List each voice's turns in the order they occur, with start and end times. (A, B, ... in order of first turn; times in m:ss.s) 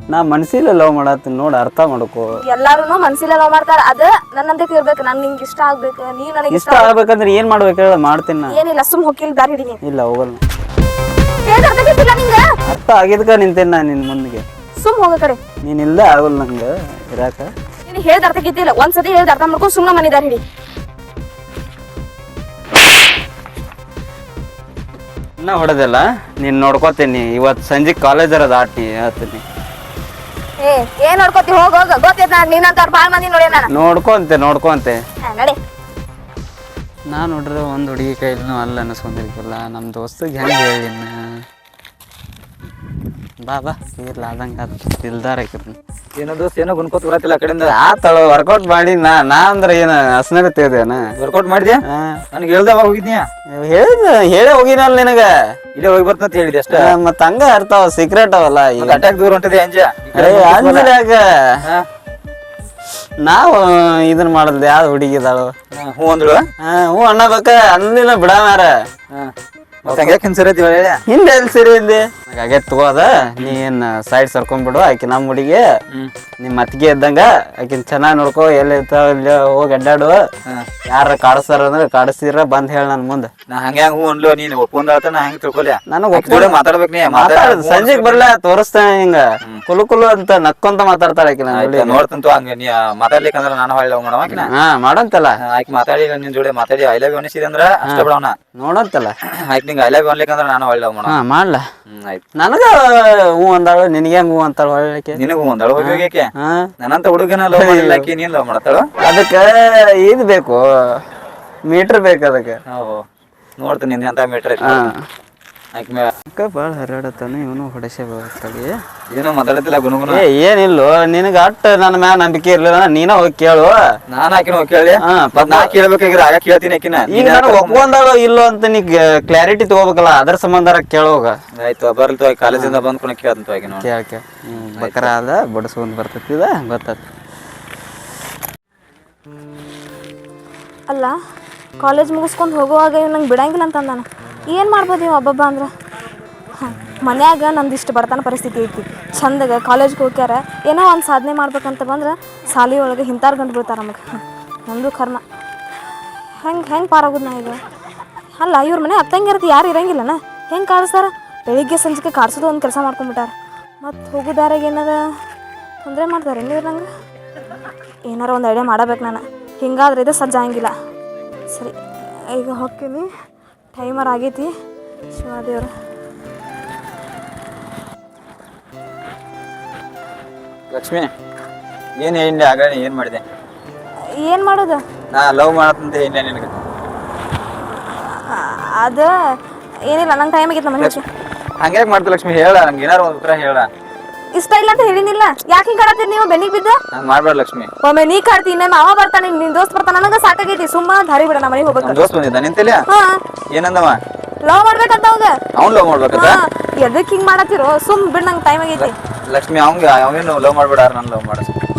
0:00.1-0:02.3 A
0:02.4-0:06.9 B
0:06.5-0:08.6 A
0:08.5-0:09.8 B
0:09.8-0:10.4 A
0:11.4-0:12.4 B
0:12.7-0:14.4 A
0:14.8-0:15.4 B
0:15.6-0:17.5 A
0:17.9-0:20.4 B
0:25.4-0:29.4 A
0:30.6-0:33.7 B
0:33.7-0:35.0 A
0:35.2-0:35.6 B
0:37.1-0:41.4 A
0:43.4-0:45.8 A
0:46.2-0:47.8 C
0:47.7-0:51.0 A
0:51.2-0:53.3 C
0:51.9-0:52.2 A
0:53.5-0:55.3 A
0:55.8-0:57.0 C
0:56.7-0:59.0 A
0:58.8-1:01.0 C
1:00.1-1:01.6 A
1:03.2-1:05.5 A
1:05.7-1:06.5 C
1:06.6-1:08.8 A
1:09.8-1:10.2 A
1:09.9-1:11.0 C
1:11.1-1:15.6 A
1:16.4-1:20.2 A
1:20.9-1:23.3 A
1:23.5-1:28.3 C
1:25.9-1:32.0 A
1:31.5-1:34.5 C
1:34.3-1:35.4 A
1:35.4-1:38.4 C
1:37.8-1:39.2 A
1:39.2-1:41.2 C
1:41.0-1:41.6 A
1:41.9-1:42.2 C
1:42.4-1:45.2 A
1:45.1-1:48.9 C
1:45.8-1:46.7 A
1:47.5-1:48.1 A
1:49.0-1:51.0 A
1:51.7-1:52.6 A
1:52.7-1:53.0 C
1:53.6-1:54.9 C
1:54.6-1:55.1 A
1:55.7-1:56.1 C
1:56.3-1:58.8 A
1:59.1-2:00.2 C
2:00.1-2:03.8 A
2:04.1-2:07.9 C
2:05.0-2:05.8 A
2:07.1-2:11.4 A
2:11.6-2:13.9 C
2:12.5-2:12.8 A
2:13.7-2:17.0 A
2:14.7-2:15.1 C
2:20.9-2:21.1 B
2:21.8-2:25.7 B
2:26.6-2:34.0 B
2:34.7-2:35.2 B
2:36.4-2:37.6 B
2:38.4-2:45.0 B
2:45.8-2:46.9 B
2:48.1-2:50.7 B
2:52.3-2:53.1 B
2:53.7-2:54.5 B
2:55.1-2:55.7 B
3:00.7-3:01.1 C
3:02.0-3:03.2 C
3:04.2-3:04.8 B
3:05.1-3:06.6 C
3:07.9-3:09.1 B
3:09.8-3:11.0 B
3:11.6-3:13.7 C
3:14.4-3:16.8 B
3:16.9-3:17.7 C
3:17.8-3:22.0 B
3:21.8-3:22.8 C
3:22.9-3:23.2 B
3:23.5-3:24.0 C
3:24.4-3:25.4 B
3:25.5-3:26.4 C
3:26.1-3:28.9 B
3:28.8-3:31.5 C